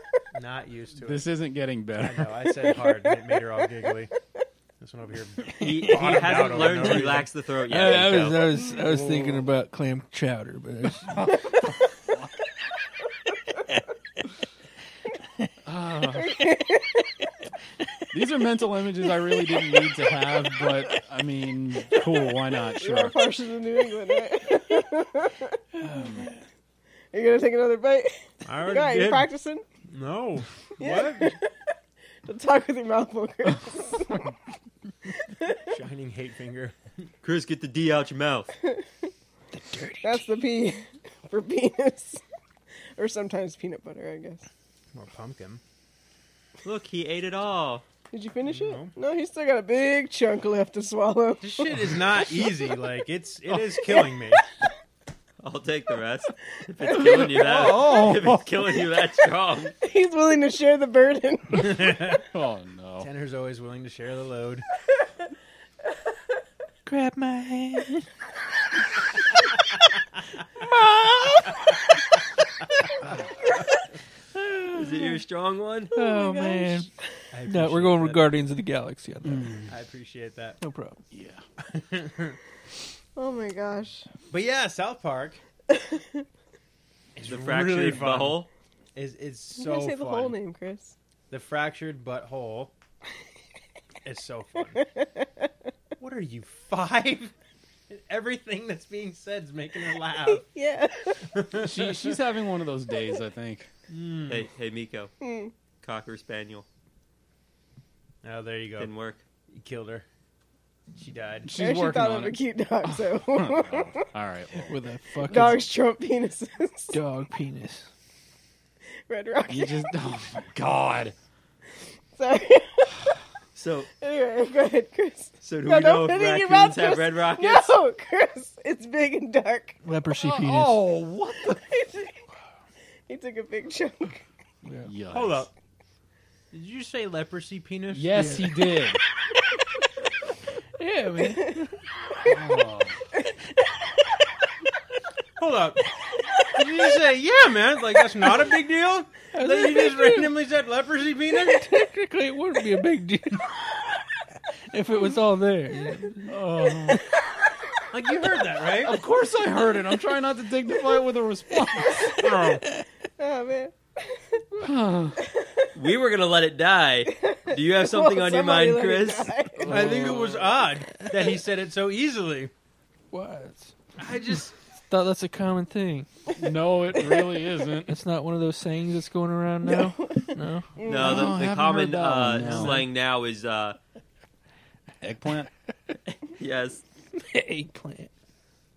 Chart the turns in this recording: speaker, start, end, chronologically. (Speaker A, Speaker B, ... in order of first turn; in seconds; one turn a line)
Speaker A: 0.3-1.3
Speaker B: 1.0-2.3
Speaker A: 2.0-4.1
Speaker C: 2.9-3.4
Speaker A: 4.8-7.3
Speaker D: 5.6-8.5
Speaker E: 5.6-6.3
Speaker E: 7.7-11.6
Speaker A: 8.7-9.5
Speaker B: 11.2-11.5
Speaker B: 15.7-16.4
Speaker C: 16.2-17.1
Speaker B: 18.1-23.2
Speaker C: 22.8-25.6
Speaker E: 25.8-26.4
Speaker B: 25.9-26.3
Speaker C: 27.1-29.6
Speaker A: 28.4-29.3
Speaker A: 29.9-31.4
Speaker C: 30.8-31.5
Speaker C: 32.3-34.2
Speaker C: 35.2-35.6
Speaker A: 35.7-36.8
Speaker D: 37.2-38.5
Speaker C: 38.6-39.1
Speaker E: 39.5-40.3
Speaker C: 40.0-42.2
Speaker C: 43.0-44.5
Speaker A: 44.9-45.6
Speaker D: 46.6-47.9
Speaker C: 48.1-51.9
Speaker A: 48.5-48.9
Speaker A: 51.4-54.4
Speaker D: 55.4-59.8
Speaker C: 56.9-57.4
Speaker B: 56.9-58.6
Speaker C: 59.8-62.2
Speaker A: 61.5-62.2
Speaker B: 62.3-63.1
Speaker A: 63.0-64.7
Speaker E: 66.9-68.1
Speaker E: 70.6-71.9
Speaker E: 74.3-75.1
Speaker D: 74.7-75.9
Speaker C: 75.9-76.9
Speaker E: 75.9-76.9
Speaker A: 77.3-78.4
Speaker E: 77.5-79.7
Speaker B: 79.2-79.7
Speaker A: 79.7-80.6
Speaker E: 80.6-81.0
Speaker B: 81.1-81.4
Speaker A: 81.7-82.4
Speaker C: 83.2-84.1
Speaker A: 84.3-85.4
Speaker C: 85.7-86.2
Speaker A: 87.2-90.4
Speaker D: 87.2-88.5
Speaker C: 89.6-91.0
Speaker A: 91.3-92.7
Speaker A: 94.0-94.8
Speaker C: 94.8-95.5
Speaker A: 96.0-97.3
Speaker A: 97.9-100.5
Speaker C: 100.0-101.3
Speaker A: 101.3-102.2
Speaker B: 101.5-103.7
Speaker A: 103.9-104.5
Speaker D: 104.3-105.1
Speaker C: 105.2-105.5
Speaker D: 105.8-106.7
Speaker A: 108.2-108.9
Speaker D: 108.8-109.2
Speaker A: 109.5-110.0
Speaker A: 110.9-111.5
Speaker B: 111.5-114.7
Speaker C: 111.6-114.1
Speaker E: 114.7-115.7
Speaker C: 115.3-117.0
Speaker E: 116.9-117.9
Speaker C: 119.1-119.9
Speaker B: 119.5-121.2
Speaker C: 122.2-123.0
Speaker D: 123.5-123.9
Speaker C: 124.0-129.8
Speaker D: 125.4-127.7
Speaker E: 129.8-130.8
Speaker B: 130.2-131.6
Speaker C: 131.6-132.2
Speaker C: 133.1-134.2
Speaker E: 134.7-134.9
Speaker B: 134.8-135.5
Speaker A: 135.1-135.5
Speaker A: 136.5-138.4
Speaker B: 137.9-139.0
Speaker E: 138.1-138.5
Speaker E: 140.8-141.8
Speaker B: 142.2-143.0
Speaker A: 145.4-145.8
Speaker A: 146.5-151.7
Speaker E: 149.3-150.3
Speaker E: 151.3-153.9
Speaker E: 154.7-156.4
Speaker B: 156.3-157.0
Speaker A: 157.9-159.0
Speaker B: 158.8-162.6
Speaker C: 163.2-164.4
Speaker B: 164.6-165.2
Speaker C: 165.2-165.7
Speaker D: 165.8-169.3
Speaker C: 167.1-169.7
Speaker B: 169.6-170.5
Speaker E: 169.7-170.3
Speaker A: 169.7-172.5
Speaker E: 173.1-173.7
Speaker A: 174.0-174.6
Speaker E: 174.8-176.1
Speaker B: 176.3-178.0
Speaker E: 177.9-180.8
Speaker C: 179.6-181.4
Speaker D: 180.8-183.8
Speaker B: 180.9-182.9
Speaker A: 182.5-182.7
Speaker B: 185.0-185.5
Speaker D: 186.3-186.8
Speaker E: 187.2-188.1